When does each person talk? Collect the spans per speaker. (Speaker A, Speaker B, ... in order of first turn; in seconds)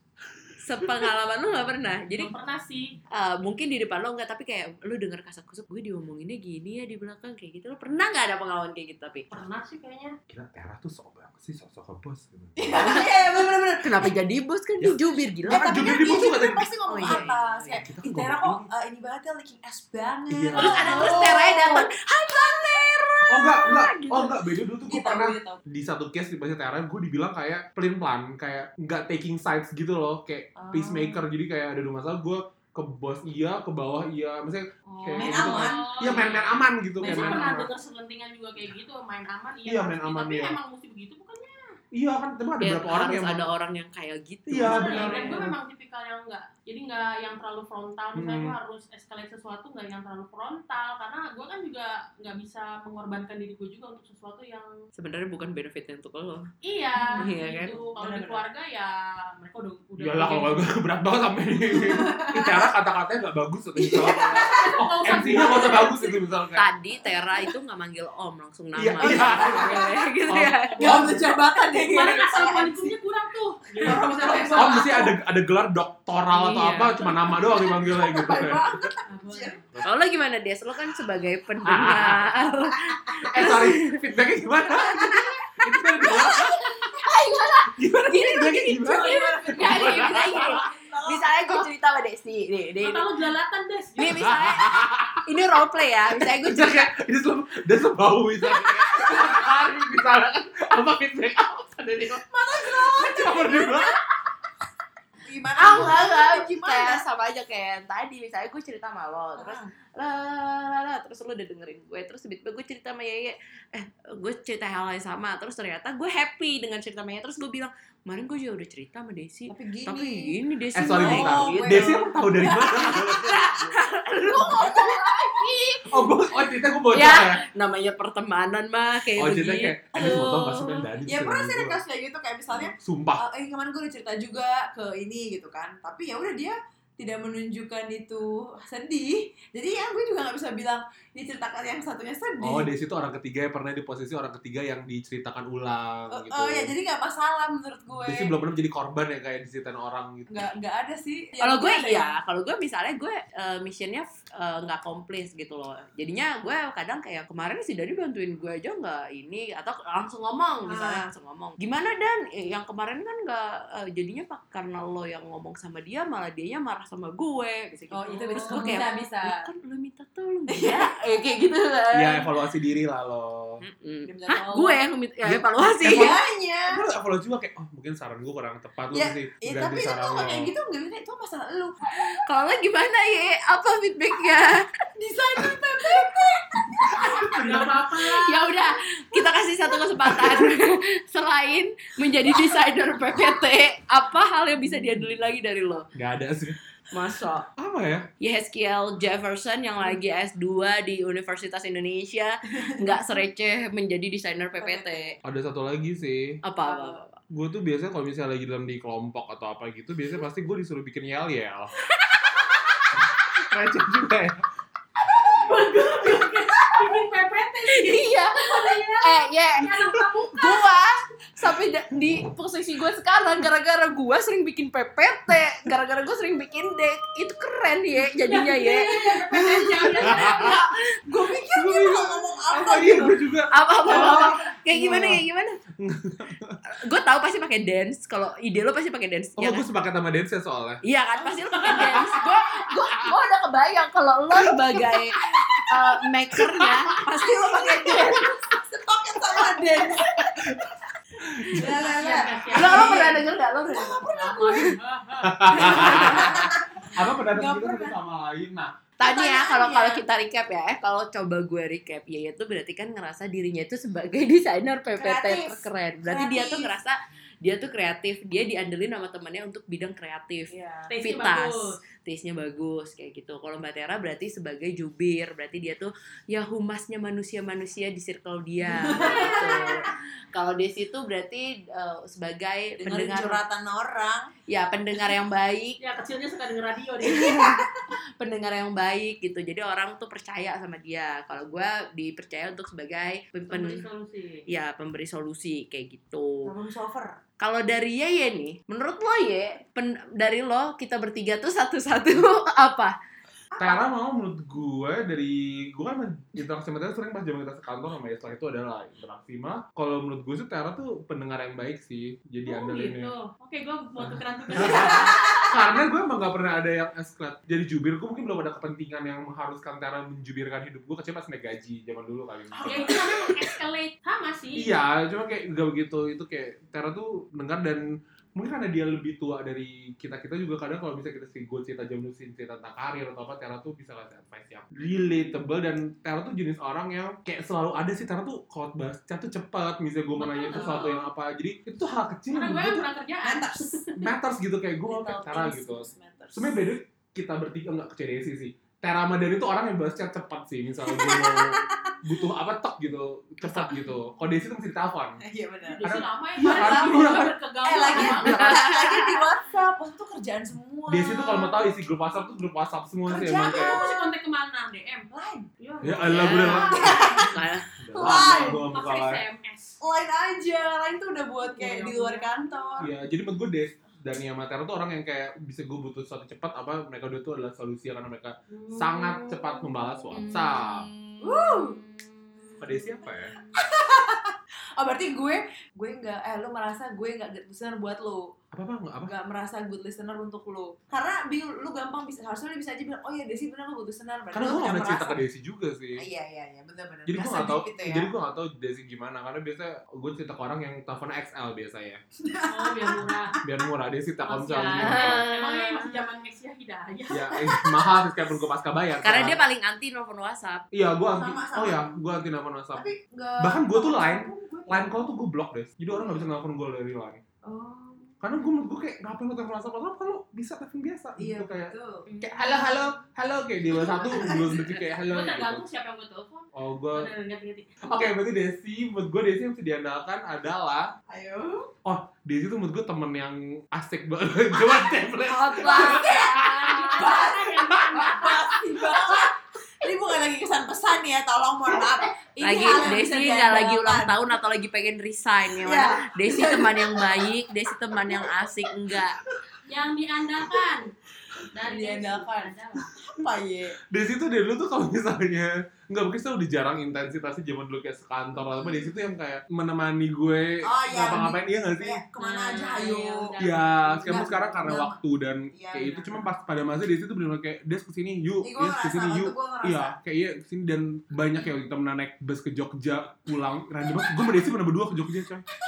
Speaker A: 0.6-2.3, 3.1-9.3, 12.8-13.1, 13.8-16.0, 16.9-17.8, 20.5-24.4, 42.6-45.2, 54.9-56.5, 57.1-57.8, 66.5-71.1, 76.3-77.9, 79.8-84.0, 84.8-93.1, 94.0-96.9, 98.5-99.5, 105.6-126.1, 126.9-130.3, 151.4-172.3, 173.6-176.2, 182.0-184.7, 188.0-195.9, 196.9-197.5, 198.2-205.2, 206.4-207.1, 212.0-213.0, 217.7-229.1, 230.1-230.8, 233.5-235.6, 236.7-239.7, 240.8-248.3, 252.5-254.6, 255.6-256.5, 259.0-283.4, 284.5-285.8, 287.1-287.6, 288.2-293.8, 294.5-296.5, 297.4-302.9, 358.2-359.2, 366.1-367.7, 380.1-382.5, 404.7-406.2, 409.0-410.6, 435.2-436.8, 442.4-449.2
Speaker B: 2.1-3.0, 9.3-10.2, 34.9-41.7, 44.6-54.7, 56.6-60.7, 64.3-66.1, 70.6-71.2, 71.8-74.9, 79.1-79.6, 92.8-94.3, 168.1-168.8, 187.0-188.5, 215.2-220.6, 228.1-230.6, 251.7-253.2, 254.1-256.1, 270.9-271.8, 278.8-279.7, 285.8-287.5, 293.5-294.4, 312.4-315.6, 322.6-324.7, 340.2-341.0, 342.3-344.0, 355.6-358.5, 363.3-365.1, 365.6-367.3, 368.0-369.8, 371.4-372.8, 378.5-380.0, 402.5-403.4, 404.2-407.4, 425.0-427.8, 436.4-438.6, 449.6-450.9, 451.5-452.9, 462.2-464.6
Speaker C: 10.3-12.8, 14.8-17.2, 17.8-18.6, 20.3-21.4, 23.2-37.7, 39.6-40.6, 41.9-43.5, 44.5-45.5, 48.1-48.5, 60.0-66.7, 68.8-70.6, 74.5-78.9, 81.6-82.3, 83.2-86.6, 87.8-90.7, 94.1-95.2, 96.2-104.0, 120.7-123.8, 125.9-127.4, 129.2-131.8, 132.6-133.2, 142.4-146.7, 147.9-150.4, 171.9-173.6, 175.2-176.2, 176.7-180.5, 186.8-187.7, 195.9-196.6, 197.6-198.1, 205.2-206.4, 207.3-211.7, 213.1-214.4, 229.4-230.6, 231.5-235.2, 235.8-236.6, 239.4-240.8, 241.6-243.1, 244.3-245.8, 246.3-246.8, 250.1-251.8, 255.2-258.8, 303.6-313.1, 314.0-323.0, 324.6-342.9, 344.0-355.2, 355.8-357.3, 357.9-358.6, 360.9-363.8, 365.8-367.2, 367.8-369.2, 372.8-380.9, 382.6-383.4, 388.5-389.1, 394.3-396.0, 397.1-402.0, 403.4-405.2, 407.1-409.4, 410.7-412.9, 413.4-417.2, 418.2-425.6, 426.5-427.1, 427.8-430.9, 431.8-437.0, 437.7-439.2, 453.9-462.0, 463.4-475.4
Speaker D: 12.6-14.1, 15.5-21.9, 24.8-25.6, 30.6-31.2, 35.1-36.2, 37.0-37.4, 45.0-45.4, 57.0-58.5, 61.7-62.7, 63.8-65.9, 69.0-70.0, 70.8-73.0, 73.8-75.2, 77.4-79.6, 82.7-83.5, 84.9-85.3, 88.8-91.5, 102.3-103.9, 105.2-107.0, 109.3-109.7, 119.5-120.3, 120.9-123.6, 124.3-125.1, 129.9-142.7, 146.1-148.3, 150.3-152.1, 160.7-161.1, 167.9-169.5, 170.5-170.9, 174.1-174.8, 175.8-176.8, 178.9-181.8, 185.0-187.8, 189.1-190.5, 202.7-203.0, 204.6-205.2, 206.6-207.0, 229.0-233.2, 233.9-234.4, 241.2-242.0, 247.1-250.3, 251.5-254.8, 255.5-258.0, 259.0-260.0, 264.9-266.7, 270.5-270.9, 278.7-279.9, 282.8-284.3, 287.1-287.7, 296.4-297.2, 303.5-303.9, 314.7-315.0, 322.5-323.3, 340.5-340.9, 343.2-343.8, 344.9-346.6, 350.9-352.0, 353.5-353.8, 355.2-355.9, 356.4-361.7, 363.1-364.1, 365.1-365.5, 366.3-368.7, 369.8-372.9, 381.2-381.8, 383.3-388.3, 389.0-395.2, 395.9-398.1, 402.2-403.3, 411.1-412.0, 412.7-415.0, 415.9-416.3, 417.4-418.1, 421.2-422.1, 423.7-424.8, 431.1-431.7, 435.6-444.2, 445.6-447.4, 447.9-449.0, 451.3-453.8, 458.6-458.8, 460.6-463.3, 464.0-465.0, 465.5-466.3, 468.4-469.9